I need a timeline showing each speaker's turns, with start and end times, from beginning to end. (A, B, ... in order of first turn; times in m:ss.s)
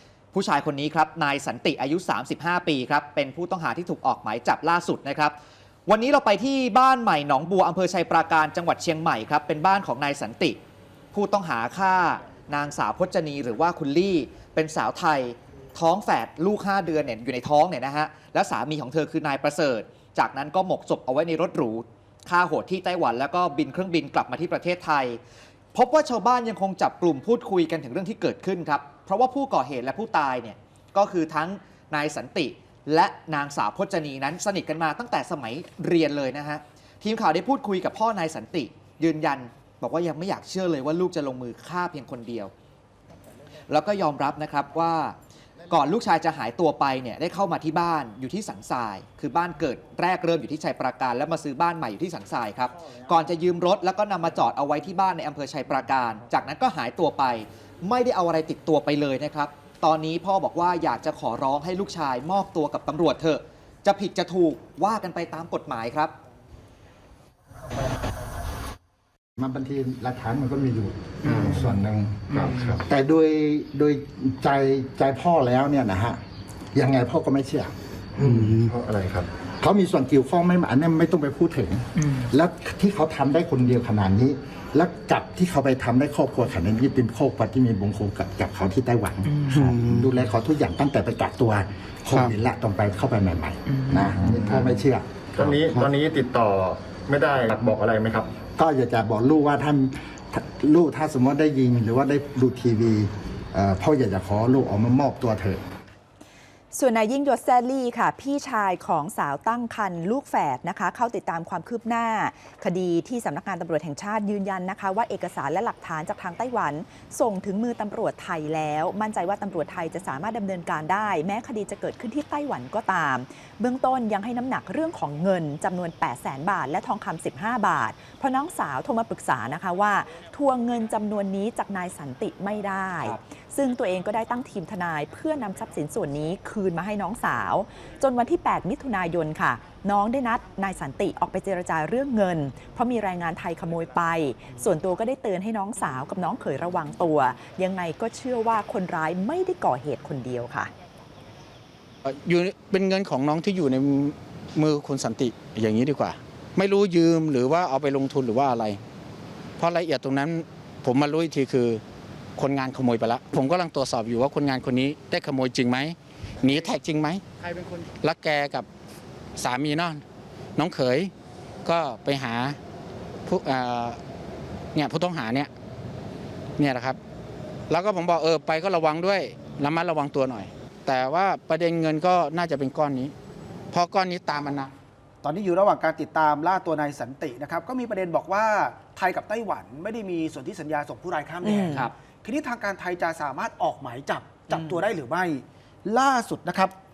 0:00.3-0:05.3 A
0:05.9-0:10.6 A
0:11.1-0:25.2 A
0:25.7-0:42.5 A
0:43.7-0:45.2 A
0:45.7-1:06.1 A
1:09.4-1:16.2 B
1:11.2-1:11.7 C
1:12.3-1:12.8 C
1:16.7-1:17.7 B
1:18.2-1:19.3 C
1:18.2-1:18.7 B
1:19.6-1:35.8 B
1:34.0-1:34.8 C
1:35.4-1:38.3 C
1:38.6-1:45.6 B
1:46.7-2:30.7 D
2:32.0-2:38.8 E
2:39.6-2:41.8 E
2:42.4-2:48.7 E
2:49.4-2:50.0 E
2:50.6-2:51.1 E
2:51.6-2:52.6 E
2:53.2-2:54.0 E
2:54.7-2:55.5 E
2:56.6-2:57.0 E
2:57.7-3:03.1 E
3:03.7-3:04.7 E
3:05.2-3:16.7 F
3:11.4-3:11.8 D
3:14.5-3:14.8 A